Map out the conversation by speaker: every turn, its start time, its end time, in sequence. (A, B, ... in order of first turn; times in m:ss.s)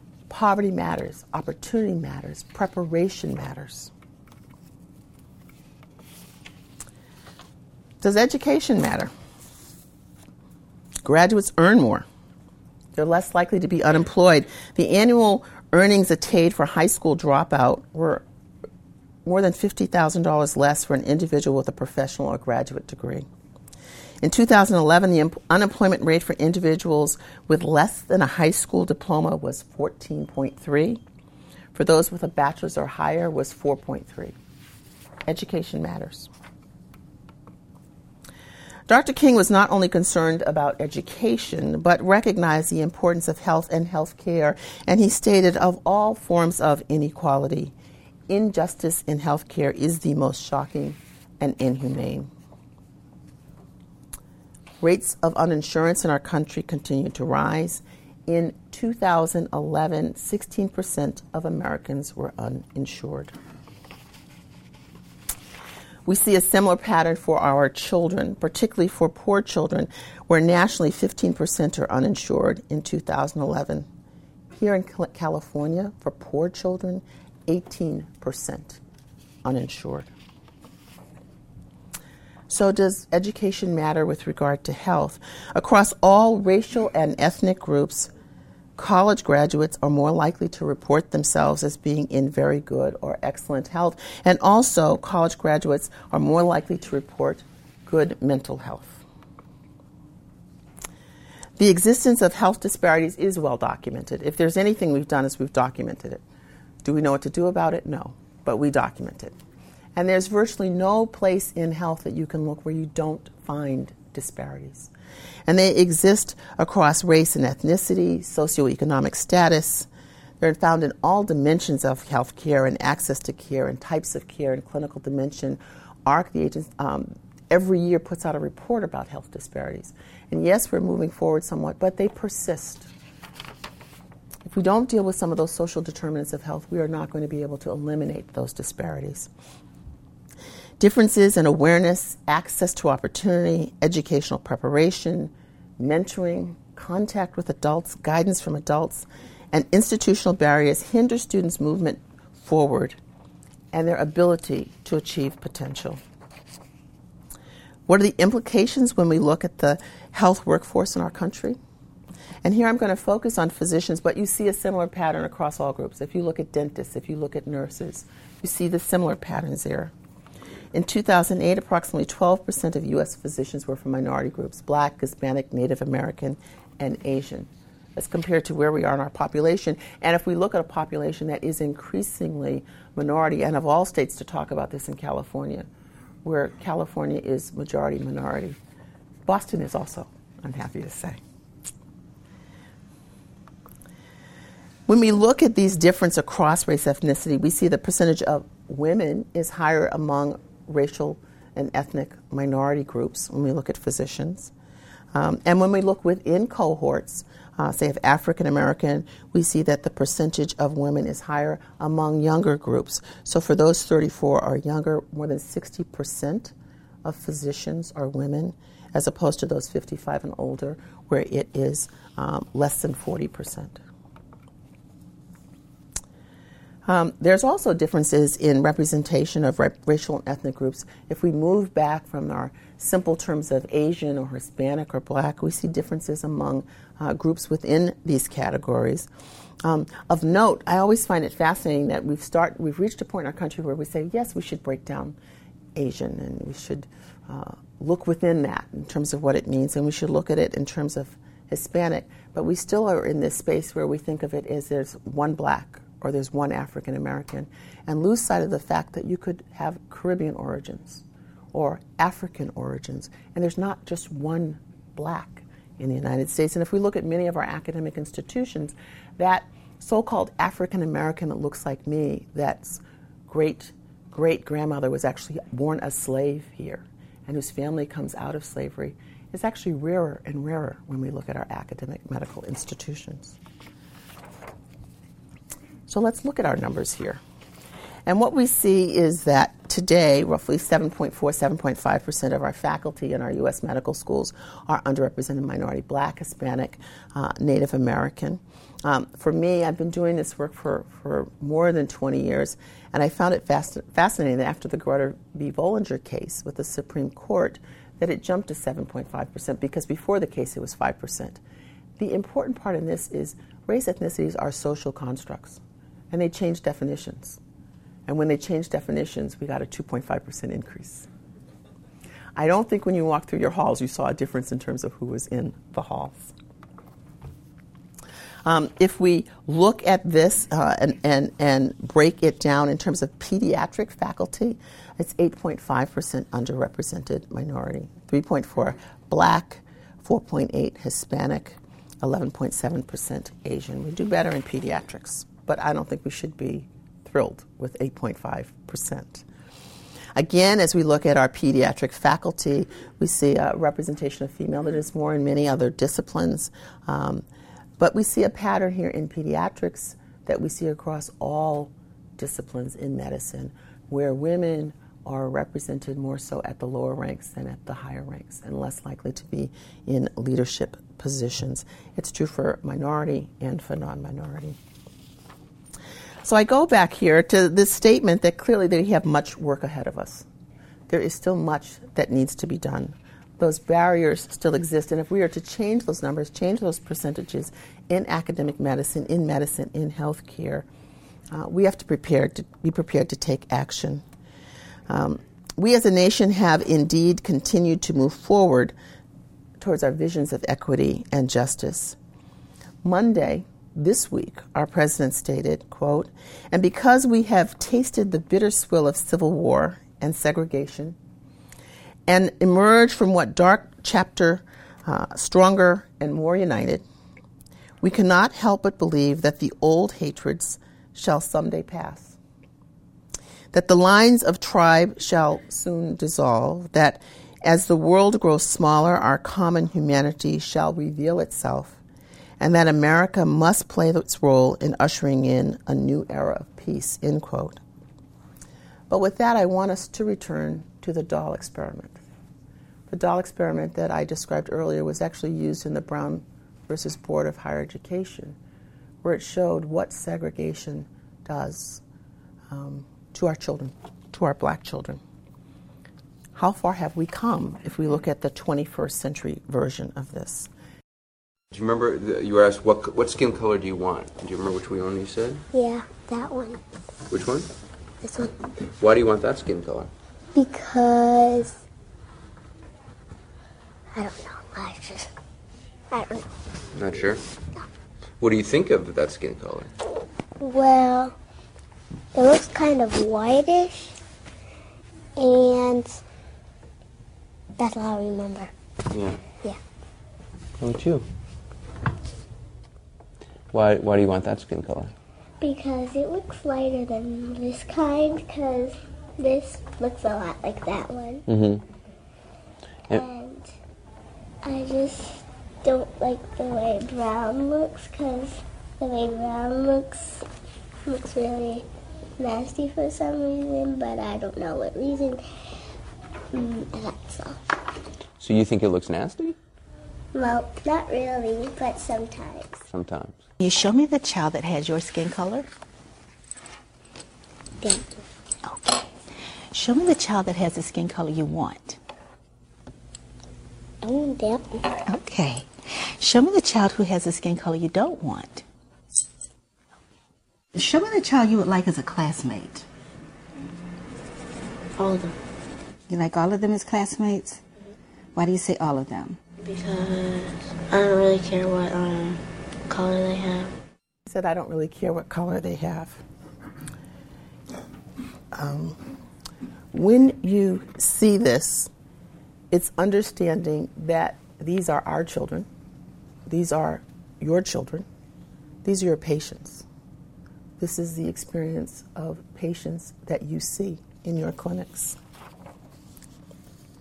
0:00.3-0:03.9 A
0:08.0-0:09.1 A
0:11.0-0:12.0 A
0:12.9-0:18.2 A
0:19.2-0:23.2 A
0:24.2-0:31.0 A
0:31.7-0:34.3 A
0:35.3-0:36.3 A
0:38.9-0:47.7 A
0:48.3-0:52.3 A
0:54.8-1:03.3 A
1:06.0-1:13.9 A
1:14.5-1:18.8 A
1:19.4-1:20.1 A
1:22.5-1:28.1 A
1:28.8-1:39.0 A
1:41.6-1:46.2 A
1:46.8-1:49.3 A
1:50.0-1:54.9 A
1:55.5-1:59.9 A
2:00.4-2:12.9 A
2:14.4-2:19.3 A
2:20.8-2:33.0 A
2:33.7-2:36.0 A
2:37.9-2:41.6 A
2:42.4-2:49.9 A
2:50.7-3:05.7 A
3:06.2-3:08.6 A
3:09.2-3:11.2 A
3:14.9-3:24.5 A
3:25.1-3:43.8 A
3:46.8-3:59.1 A
3:59.6-4:05.2 A
4:05.7-4:43.4 A
4:45.9-4:47.2 A
4:48.0-5:11.4 A
5:12.0-5:15.6 A
5:16.1-5:17.4 A
5:18.1-5:21.1 A
5:22.4-5:26.3 A
5:28.4-5:49.2 A
5:50.1-5:57.2 A
5:57.8-6:14.6 A
6:16.2-6:20.2 A
6:20.9-6:30.6 A
6:31.3-6:34.0 A
6:34.9-6:38.7 A
6:39.6-6:42.0 A
6:42.8-6:51.0 A
6:52.1-6:56.8 A
6:57.8-7:02.2 A
7:03.5-7:11.8 A
7:12.4-7:17.6 A
7:18.9-7:22.0 A
7:22.9-7:28.4 A
7:29.0-7:31.8 A
7:32.5-7:35.0 A
7:36.4-7:40.5 A
7:41.5-7:45.4 B
7:45.5-7:46.6 C
7:47.1-7:47.5 B
7:48.0-7:48.3 C
7:48.7-7:49.9 B
7:50.3-7:51.6 C
7:53.9-7:55.1 C
7:55.9-7:56.3 C
7:56.7-7:57.2 B
7:58.2-7:59.7 B
8:00.4-8:01.1 C
8:02.1-8:03.9 C
8:05.2-8:06.0 C
8:07.6-8:08.5 C
8:08.9-8:09.2 B
8:10.6-8:11.0 B
8:13.5-8:14.9 B
8:15.4-8:21.2 C
8:21.3-8:21.6 B
8:22.9-8:23.5 C
8:24.4-8:30.2 C
8:30.8-8:31.6 C
8:32.2-8:35.2 C
8:36.3-8:37.4 C
8:38.2-8:39.4 B
8:40.1-8:42.6 C
8:42.7-8:43.2 B
8:43.4-8:45.5 D
8:47.6-8:47.9 C
8:48.4-8:48.7 D
8:49.5-8:51.8 D
8:53.8-8:54.7 C
8:54.8-8:58.4 D
9:00.5-9:02.6 D
9:04.8-9:05.2 E
9:05.9-9:07.4 D
9:08.1-9:09.2 D
9:09.4-9:13.5 E
9:14.0-9:16.0 A
9:18.3-9:18.8 A
9:19.7-9:21.7 A
9:22.5-9:25.5 A
9:26.3-9:27.8 A
9:28.6-9:29.6 A
9:30.6-9:35.0 A